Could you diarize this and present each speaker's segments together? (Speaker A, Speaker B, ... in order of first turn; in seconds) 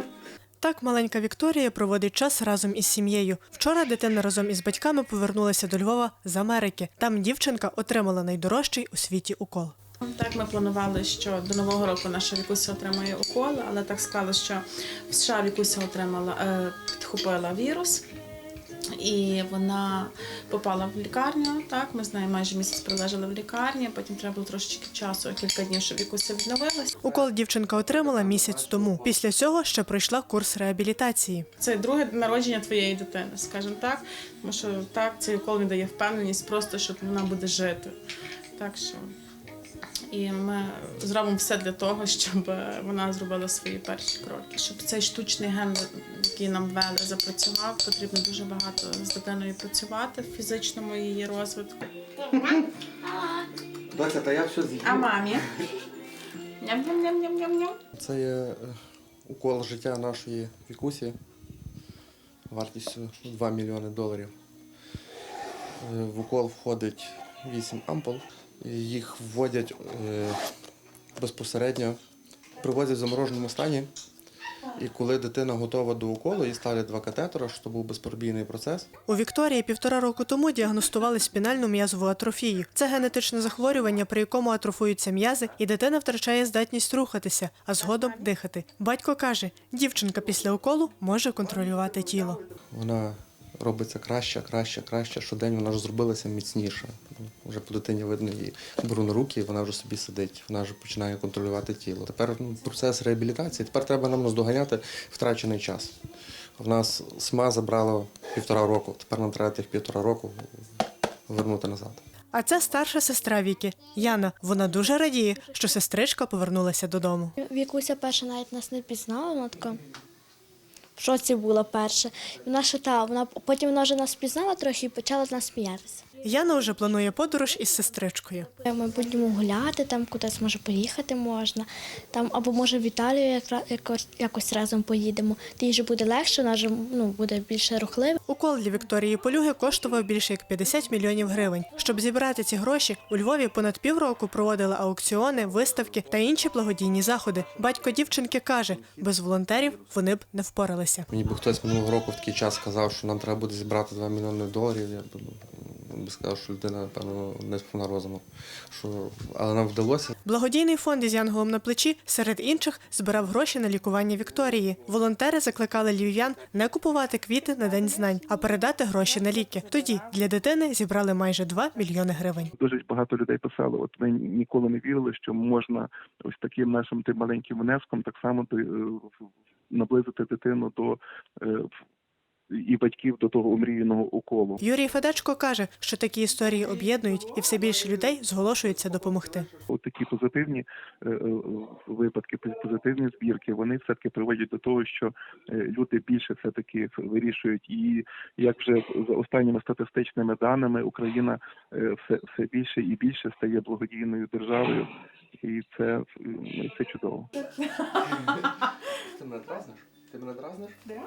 Speaker A: 0.6-9.8, 27.0-31.5, 79.1-92.4, 112.3-117.3, 126.2-128.5, 138.3-151.1, 160.2-172.5, 184.6-189.5
Speaker B: 10.0-18.1, 19.0-27.0, 31.6-38.0, 38.5-39.1, 40.1-51.9, 54.8-55.5, 56.6-57.8, 87.8-88.2
Speaker C: 27.0-29.2, 53.9-55.3, 58.0-61.2, 62.5-64.3, 65.8-70.4, 71.2-72.0, 72.6-73.9, 74.8-78.9, 92.7-105.9, 106.6-110.6, 111.3-112.0, 147.3-149.9, 151.1-160.1, 208.0-210.8
Speaker D: 117.5-119.8, 121.0-126.0, 128.6-138.1
Speaker E: 172.5-181.7, 182.5-184.6, 189.7-207.3